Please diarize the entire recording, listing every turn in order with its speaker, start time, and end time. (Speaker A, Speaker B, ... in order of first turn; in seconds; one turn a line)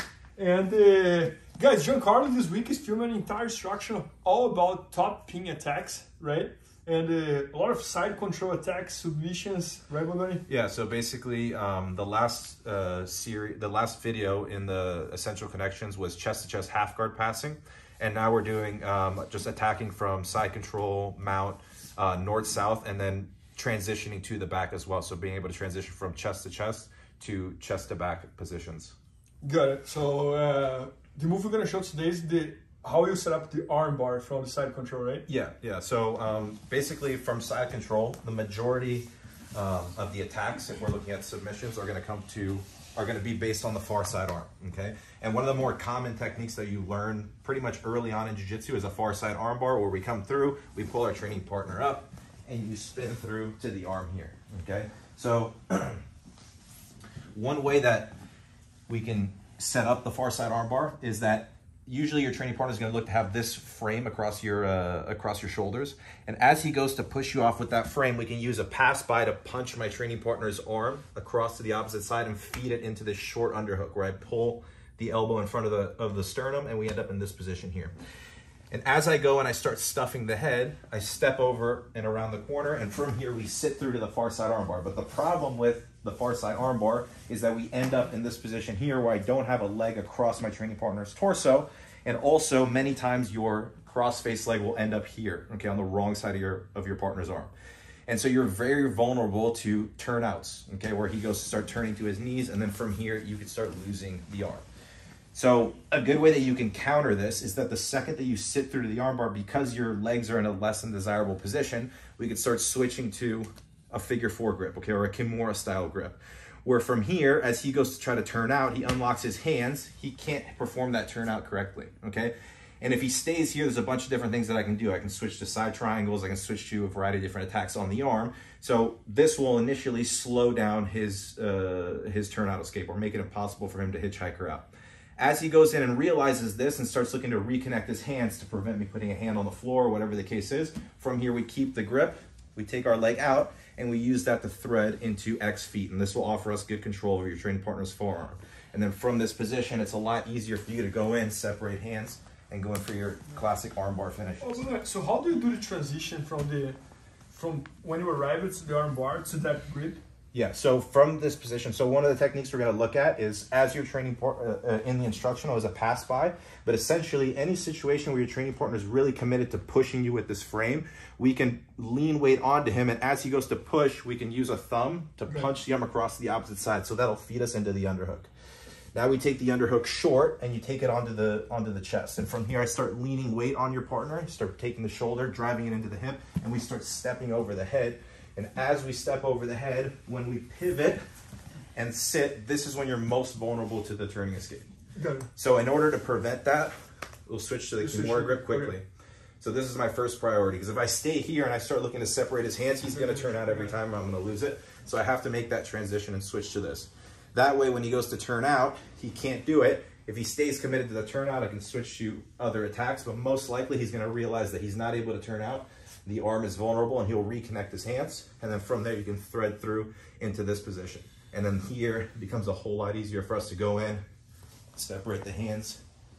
Speaker A: 0.4-10.4
Speaker B: 10.5-28.9
Speaker A: 29.4-35.3
Speaker B: 35.3-56.0
Speaker B: 57.3-58.2
Speaker B: 58.9-77.9
Speaker B: 78.7-97.5
Speaker B: 98.1-104.6
Speaker B: 105.3-154.6
Speaker A: 154.4-156.8
Speaker A: 157.3-160.0
Speaker B: 160.3-178.3
Speaker B: 178.9-191.0
Speaker B: 191.8-194.7
Speaker A: 195.0-195.3
Speaker B: 195.4-196.7
Speaker B: 197.3-198.8
Speaker A: 197.8-198.8
Speaker B: 199.4-224.0
Speaker A: 202.9-203.8
Speaker B: 224.8-225.8